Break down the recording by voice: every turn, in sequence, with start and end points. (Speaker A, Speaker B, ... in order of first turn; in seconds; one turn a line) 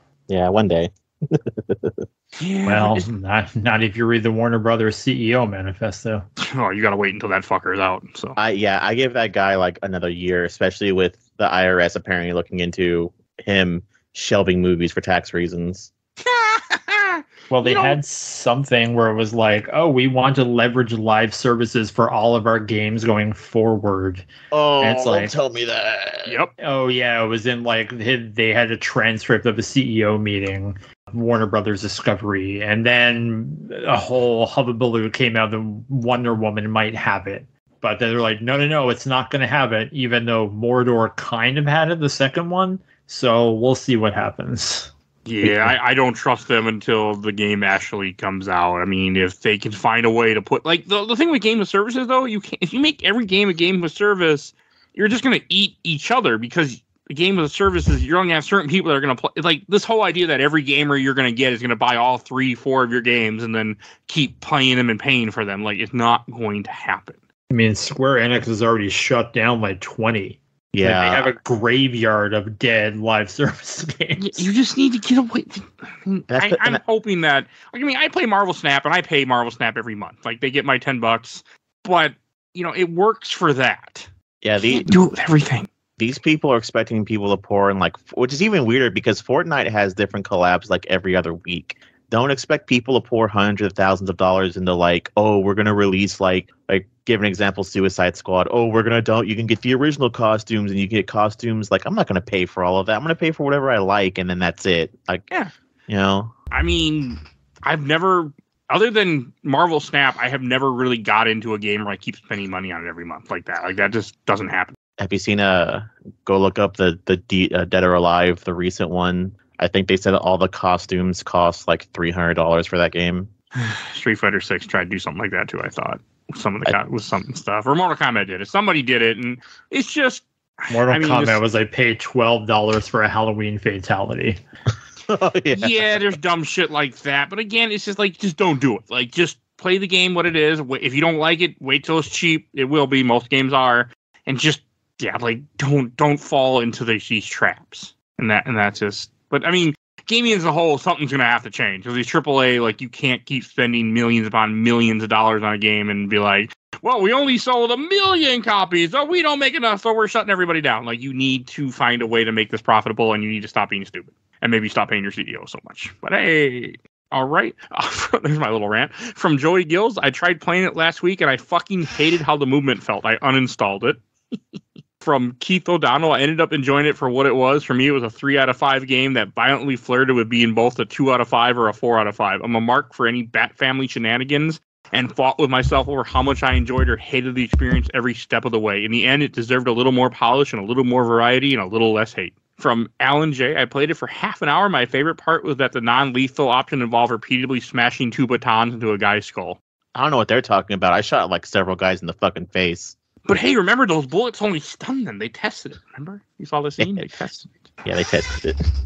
Speaker A: 0.3-2.0
Speaker B: 2.4-3.1
Speaker C: 2.6-6.2
Speaker B: 6.4-8.3
Speaker A: 8.3-15.9
Speaker B: 16.2-18.0
Speaker C: 17.5-24.3
Speaker A: 24.5-26.3
Speaker C: 24.8-25.3
Speaker B: 26.2-26.5
Speaker C: 26.6-44.9
Speaker B: 45.2-67.2
Speaker C: 67.5-74.5
Speaker A: 70.7-71.3
Speaker B: 74.2-84.1
Speaker A: 76.3-76.8
Speaker A: 84.4-84.9
Speaker B: 84.6-85.7
Speaker A: 86.0-105.3
Speaker A: 105.9-106.3
Speaker B: 106.5-114.8
Speaker A: 115.0-123.3
Speaker B: 123.5-131.4
Speaker C: 130.7-134.4
Speaker A: 135.1-136.0
Speaker B: 135.5-199.6
Speaker A: 199.9-202.9
Speaker B: 203.2-207.7
Speaker A: 207.8-208.7